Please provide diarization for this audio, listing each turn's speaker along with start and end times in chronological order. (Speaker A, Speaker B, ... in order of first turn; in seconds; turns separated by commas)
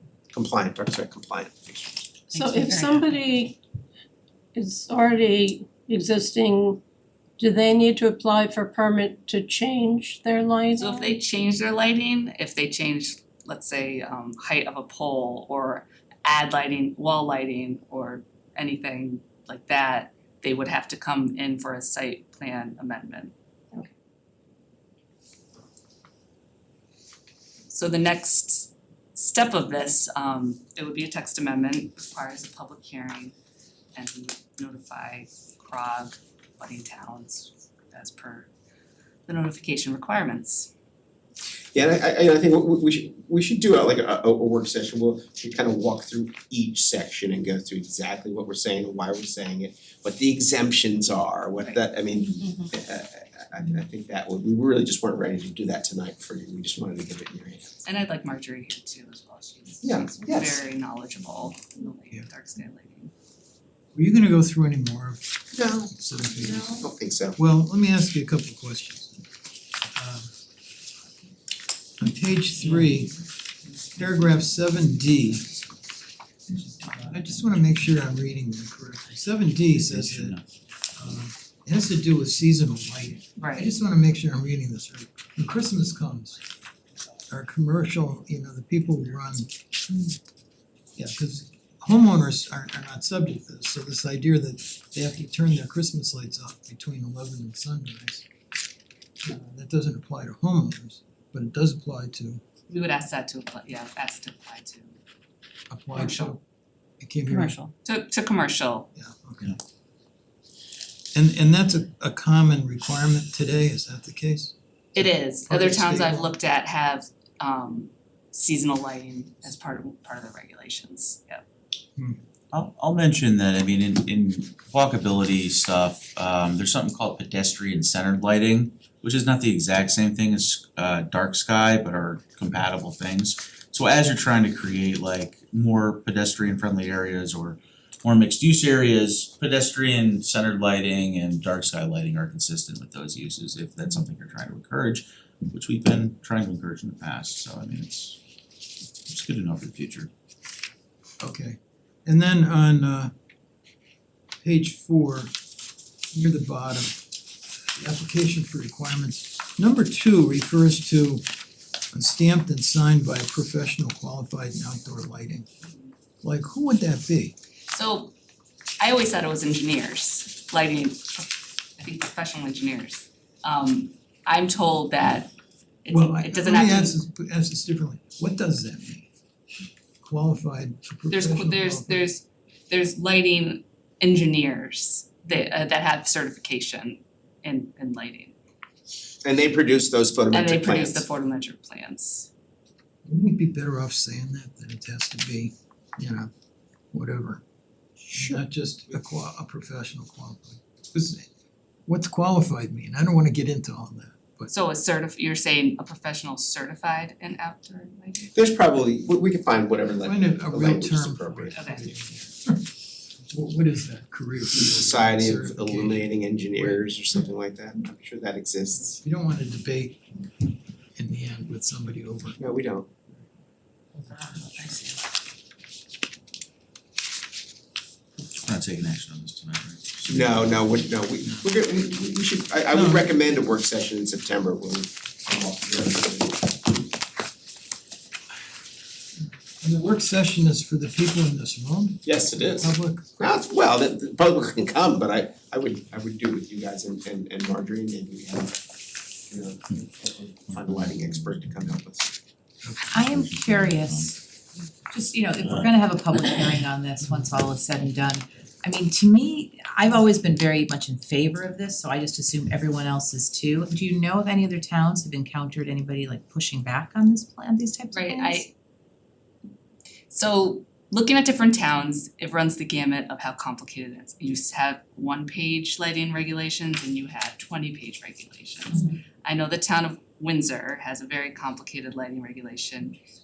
Speaker A: 0.3-2.1, Speaker B: 2.3-3.6, Speaker C: 2.3-3.1, Speaker B: 4.5-6.8, Speaker B: 7.4-11.1, Speaker C: 10.8-23.3, Speaker C: 27.7-33.4, Speaker C: 34.0-38.5, Speaker C: 39.3-40.7, Speaker A: 41.7-57.8, Speaker C: 57.9-63.1, Speaker A: 59.8-60.6, Speaker D: 64.0-66.8, Speaker A: 65.5-67.4, Speaker D: 67.4-69.3, Speaker D: 69.9-70.3, Speaker D: 72.0-73.2, Speaker D: 73.9-75.6, Speaker D: 76.5-80.4, Speaker E: 79.7-80.4, Speaker D: 81.0-86.4, Speaker C: 83.4-83.7, Speaker D: 87.3-89.5, Speaker D: 91.0-98.3, Speaker D: 99.2-102.4, Speaker C: 102.7-105.0, Speaker D: 105.7-106.4, Speaker C: 105.9-106.3, Speaker D: 107.0-107.6, Speaker C: 107.7-108.9, Speaker D: 109.0-109.6, Speaker D: 111.1-116.4, Speaker C: 115.0-121.4, Speaker E: 122.5-148.2, Speaker E: 149.1-150.1, Speaker D: 151.2-153.1, Speaker D: 154.4-155.3, Speaker D: 156.1-157.0, Speaker D: 157.8-161.2, Speaker D: 161.9-165.5, Speaker D: 166.2-167.3, Speaker C: 167.7-168.1, Speaker C: 168.8-175.3, Speaker C: 175.8-177.0, Speaker D: 175.9-179.1, Speaker D: 180.0-182.1, Speaker C: 181.1-188.3, Speaker A: 189.2-191.1, Speaker C: 190.3-192.3, Speaker D: 193.1-196.3, Speaker D: 196.9-197.4, Speaker A: 198.0-198.4, Speaker D: 198.1-201.3, Speaker D: 201.9-204.5, Speaker C: 204.5-208.3, Speaker A: 208.3-211.9, Speaker D: 210.0-212.7, Speaker C: 211.5-211.9, Speaker D: 213.3-216.8, Speaker A: 214.6-219.0, Speaker D: 219.0-220.0, Speaker D: 221.0-222.4, Speaker A: 222.4-222.9, Speaker C: 224.1-225.0, Speaker D: 224.2-224.7, Speaker E: 228.2-230.3, Speaker A: 230.0-236.6, Speaker D: 232.7-233.2, Speaker D: 239.6-243.2, Speaker A: 242.1-248.6, Speaker A: 249.3-252.2, Speaker E: 250.5-251.8, Speaker D: 252.6-253.0, Speaker F: 252.9-254.2, Speaker E: 252.9-254.2, Speaker F: 254.9-268.4, Speaker E: 255.4-255.7, Speaker C: 267.9-268.5, Speaker C: 270.1-283.0